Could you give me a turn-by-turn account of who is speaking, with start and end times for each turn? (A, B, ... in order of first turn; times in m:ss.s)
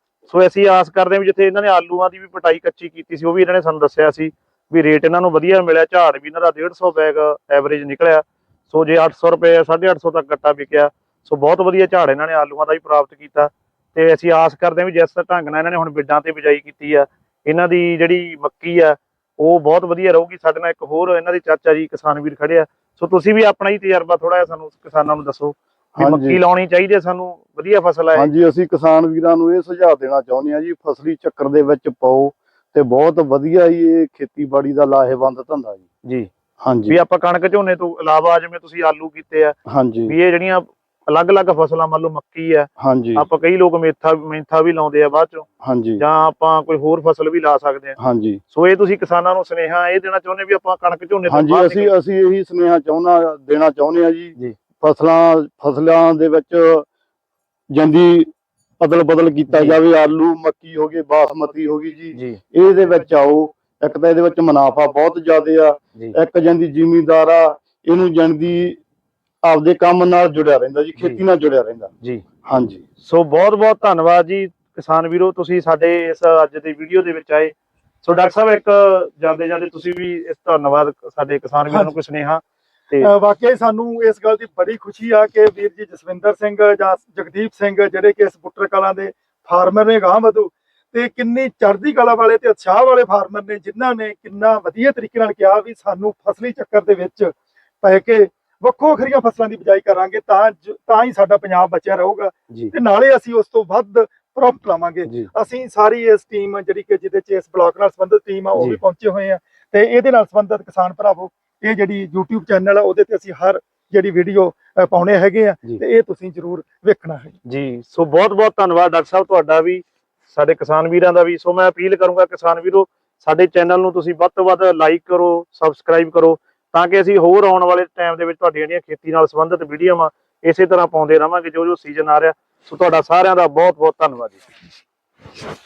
0:00.3-0:28.3 A
0:26.0-0:26.4 B
0:28.1-0:35.8 B
0:36.0-0:36.3 A
0:36.6-0:37.0 B
0:36.9-0:39.6 A
0:39.7-0:40.1 B
0:40.1-0:45.5 A
0:42.8-0:43.3 B
0:45.6-0:46.0 B
0:46.0-0:48.0 A
0:48.0-0:48.4 B
0:48.5-0:51.9 A
0:51.3-0:56.8 B
0:57.7-1:08.8 B
0:59.5-0:59.8 A
1:02.1-1:02.4 A
1:09.4-1:11.9 B
1:12.5-1:12.8 B
1:13.0-1:23.1 A
1:23.0-1:57.4 C
1:57.5-2:14.4 A